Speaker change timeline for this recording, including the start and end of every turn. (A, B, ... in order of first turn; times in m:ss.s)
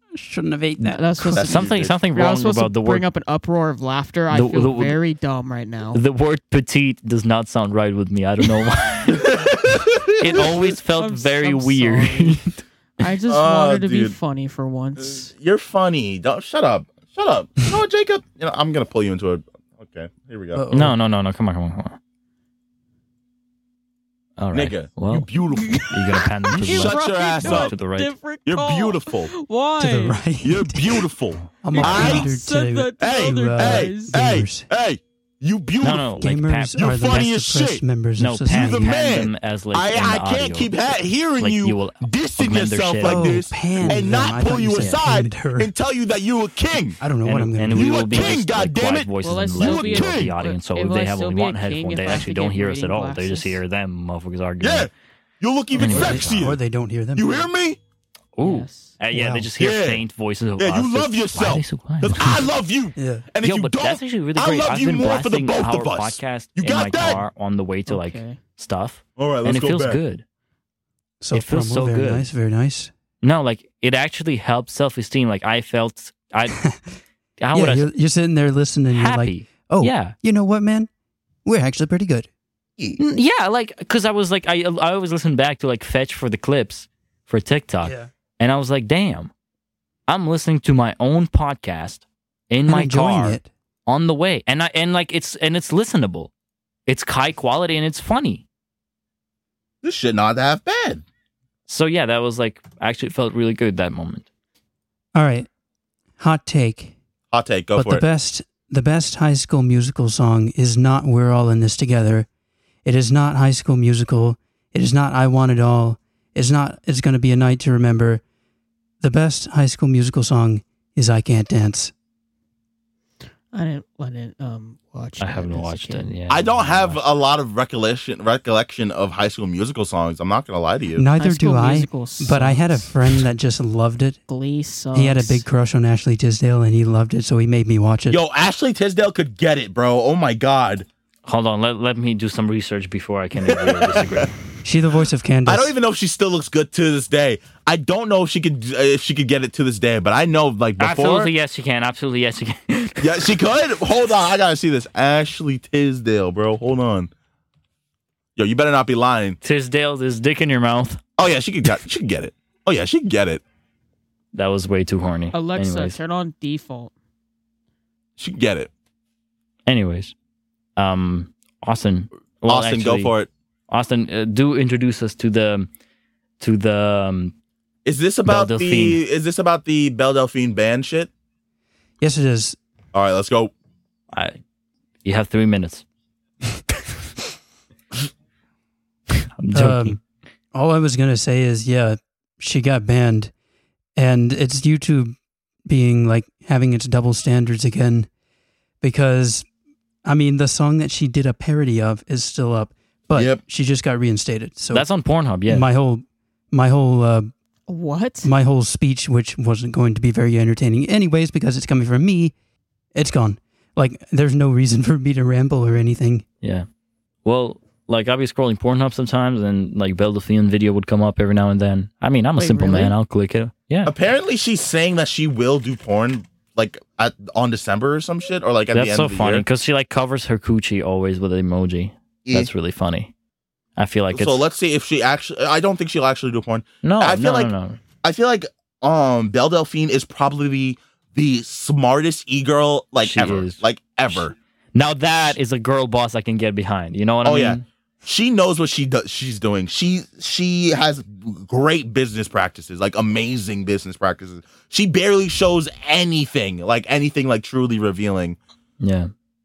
0:00.2-0:01.4 A
0:00.8-0:03.0 B
0:01.0-0:06.0 C
0:01.4-0:02.0 D
0:04.3-0:05.0 B
0:05.9-0:12.6 B
0:09.1-0:10.5 D
0:10.3-0:15.3 C
0:13.3-0:14.2 D
0:15.0-0:20.7 D
0:20.5-0:21.0 A
0:20.7-0:22.0 B
0:24.4-0:25.3 B
0:24.5-0:27.7 D
0:25.8-0:28.1 B
0:26.6-0:30.2 C
0:28.5-0:29.3 D
0:29.8-0:31.1 A
0:30.4-0:32.3 D
0:31.6-0:34.7 A
0:31.7-0:34.2 C
0:33.0-0:36.2 D
0:35.8-0:37.2 B
0:36.2-0:38.9 A
0:36.8-0:37.8 D
0:38.2-0:40.7 B
0:38.5-0:47.0 D
0:41.4-0:44.0 B
0:43.0-0:45.7 A
0:44.7-0:45.0 B
0:47.0-0:48.3 A
0:47.2-0:54.9 B
0:47.7-0:50.3 D
0:49.2-0:53.6 C
0:54.6-0:56.6 D
0:55.7-0:56.5 B
0:55.8-0:57.4 A
0:57.2-0:57.8 D
0:58.4-1:02.5 B
0:58.4-0:59.0 C
0:59.1-0:59.5 A
0:59.6-1:00.0 D
1:00.6-1:07.2 D
1:03.0-1:03.3 A
1:03.4-1:10.2 B
1:07.9-1:08.4 C
1:09.2-1:10.0 D
1:11.2-1:12.9 A
1:11.3-1:12.3 B
1:13.2-1:16.6 B
1:16.6-1:17.0 A
1:17.4-1:17.9 B
1:17.5-1:20.9 A
1:18.9-1:20.2 B
1:21.4-1:22.3 A
1:23.0-1:29.3 B
1:27.8-1:28.1 A
1:30.1-1:36.3 B
1:32.7-1:33.5 A
1:36.9-1:38.4 B
1:39.8-1:41.0 D
1:41.7-1:44.3 B
1:45.2-1:45.5 A
1:46.2-1:47.0 A
1:47.3-1:48.0 D
1:47.8-1:52.3 A
1:52.8-1:58.2 A
1:59.0-2:01.9 A
2:03.5-2:06.1 C
2:05.2-2:07.0 B
2:06.3-2:11.0 D
2:11.0-2:14.2 A
2:11.2-2:13.2 C
2:14.3-2:15.4 C
2:14.9-2:18.2 A
2:18.1-2:20.9 D
2:21.3-2:24.3 B
2:23.4-2:24.3 D
2:24.6-2:25.7 A
2:25.5-2:31.3 D
2:30.8-2:33.4 B
2:33.0-2:37.1 D
2:38.4-2:39.4 D
2:39.4-2:41.0 B
2:41.2-2:43.4 D
2:44.3-2:46.0 B
2:45.3-2:46.9 C
2:48.2-2:48.7 D
2:49.7-2:50.1 B
2:50.8-2:53.2 B
2:52.5-2:53.3 D
2:53.7-2:55.7 B
2:56.4-2:57.3 B
2:57.8-3:01.1 D
2:58.3-2:59.0 B
3:02.0-3:02.6 A
3:02.9-3:03.5 D
3:04.1-3:04.4 B
3:05.0-3:05.8 B
3:09.4-3:10.0 B
3:09.6-3:10.0 A
3:10.5-3:13.3 A
3:14.0-3:18.1 A
3:18.8-3:19.5 A
3:20.1-3:24.9 A
3:23.2-3:23.4 D
3:24.7-3:25.7 B
3:25.5-3:27.3 A
3:27.7-3:28.3 C
3:28.2-3:32.3 A
3:33.0-3:36.2 A
3:37.2-3:43.9 B
3:42.4-3:43.0 C
3:43.9-3:49.4 D
3:48.7-3:53.1 B
3:53.8-3:54.5 B
3:54.1-3:57.5 D
3:56.8-3:57.8 B
3:58.0-4:04.4 D
4:03.0-4:03.6 B
4:04.8-4:07.6 B
4:07.2-4:18.4 D
4:18.8-4:19.1 B